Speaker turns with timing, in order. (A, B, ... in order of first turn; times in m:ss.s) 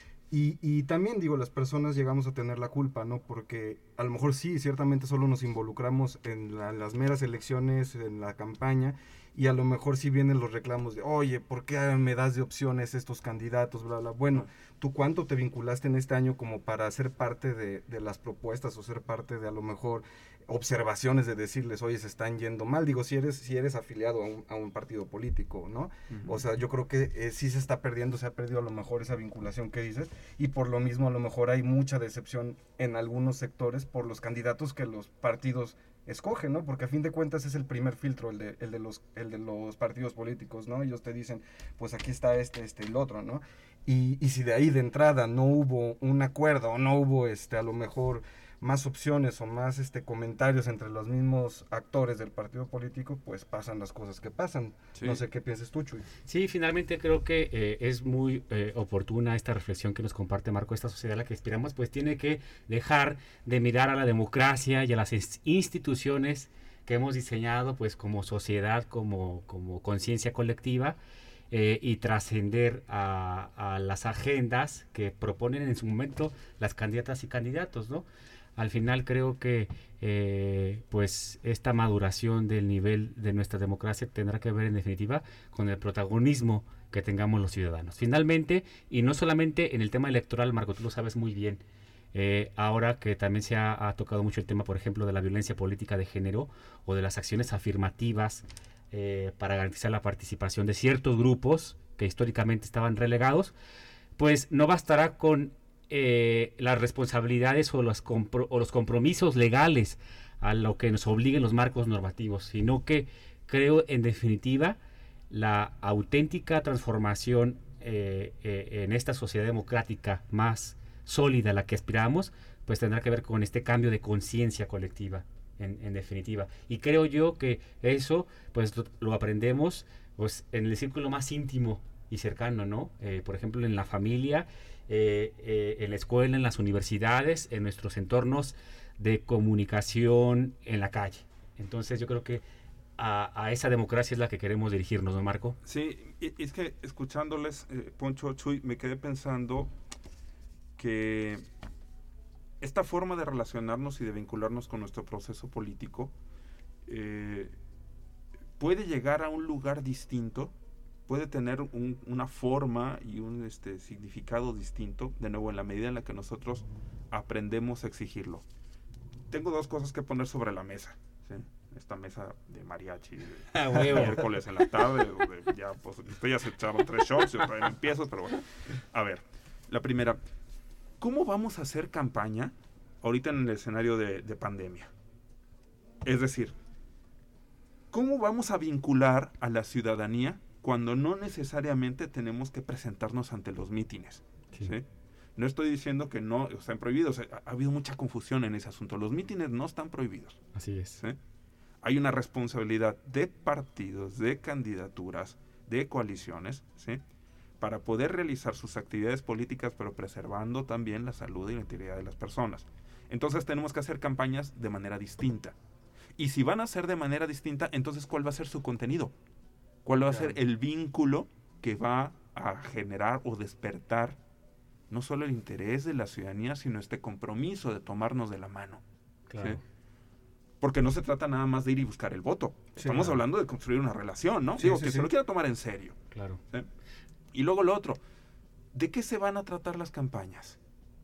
0:00.3-0:56.0 A
0:26.1-0:26.4 B
0:56.2-1:11.0 C
1:11.5-1:18.0 C
1:18.6-1:31.6 C
1:32.1-1:43.5 C
1:44.2-1:54.8 C
1:55.3-2:22.4 C
2:23.0-2:25.6 C
2:25.6-2:29.7 B
2:30.8-2:31.4 B
2:32.6-2:36.1 B
2:36.9-2:37.5 B
2:38.6-2:40.5 B
2:41.1-2:48.4 B
2:49.3-3:00.2 B
2:53.5-2:54.2 C
3:01.0-3:04.9 B
3:06.0-3:06.5 B
3:07.9-3:14.8 B
3:15.4-3:20.4 B
3:20.5-3:21.0 C
3:21.8-3:27.0 B
3:27.6-3:35.6 B
3:36.2-3:39.1 B
3:39.8-3:44.2 B
3:40.0-3:40.3 A
3:44.9-3:48.8 B
3:49.3-3:49.6 C
3:50.6-3:56.0 B
3:52.8-3:53.1 A
3:54.6-3:55.1 A
3:56.1-3:56.4 C
3:57.3-3:58.0 B
3:58.7-4:00.6 B